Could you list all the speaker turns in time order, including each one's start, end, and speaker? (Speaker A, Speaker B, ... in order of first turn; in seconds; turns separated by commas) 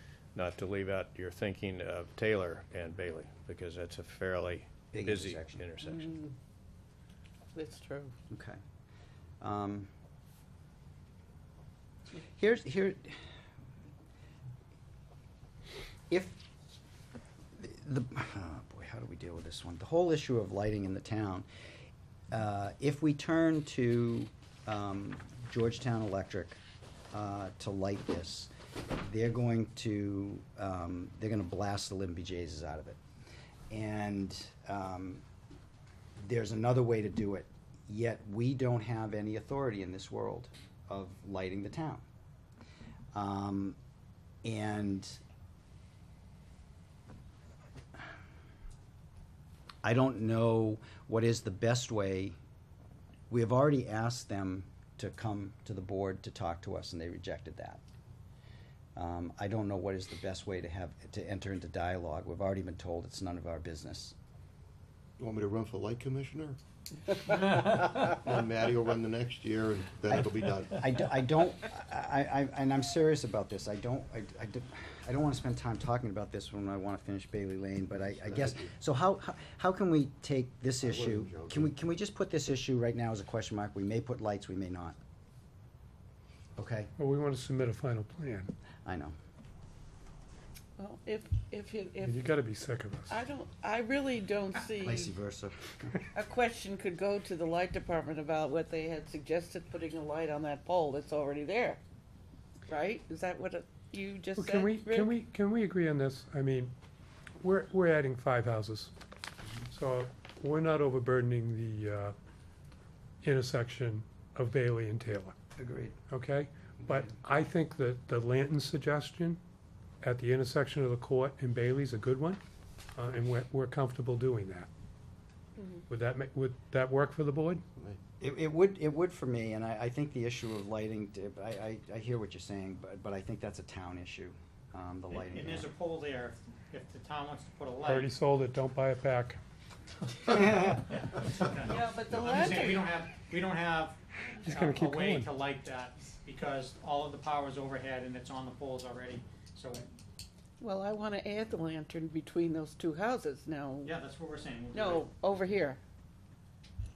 Speaker A: 0.3-6.0, Speaker B: 4.9-5.7, Speaker C: 5.8-6.3, Speaker C: 7.5-8.1, Speaker B: 8.3-8.6, Speaker B: 9.4-9.9, Speaker B: 12.3-13.2, Speaker B: 16.1-16.4, Speaker B: 17.6-21.5, Speaker B: 22.3-26.6, Speaker B: 27.1-33.0, Speaker B: 33.7-35.2, Speaker B: 36.2-42.0, Speaker B: 43.1-43.8, Speaker B: 44.4-45.2, Speaker B: 49.8-52.4, Speaker B: 53.3-57.8, Speaker B: 59.0-64.2, Speaker D: 65.2-66.6, Speaker D: 67.3-71.0, Speaker B: 70.1-85.0, Speaker D: 78.0-78.7, Speaker D: 80.8-81.8, Speaker B: 86.6-86.9, Speaker E: 87.0-88.5, Speaker B: 88.8-89.2, Speaker C: 90.8-92.5, Speaker E: 92.0-93.1, Speaker C: 93.1-95.1, Speaker B: 94.8-96.0, Speaker C: 96.1-101.8, Speaker C: 102.7-105.2, Speaker E: 104.4-106.7, Speaker E: 107.4-108.9, Speaker E: 109.7-112.1, Speaker E: 113.2-115.3, Speaker B: 115.6-116.0, Speaker E: 116.1-119.4, Speaker B: 116.8-117.1, Speaker E: 120.0-122.4, Speaker E: 123.0-124.7, Speaker E: 125.9-127.6, Speaker B: 128.2-135.7, Speaker F: 135.1-138.1, Speaker E: 137.8-139.4, Speaker F: 140.6-149.9, Speaker C: 141.6-143.0, Speaker E: 144.4-145.3, Speaker C: 150.6-153.9, Speaker F: 153.8-155.1, Speaker C: 154.7-155.8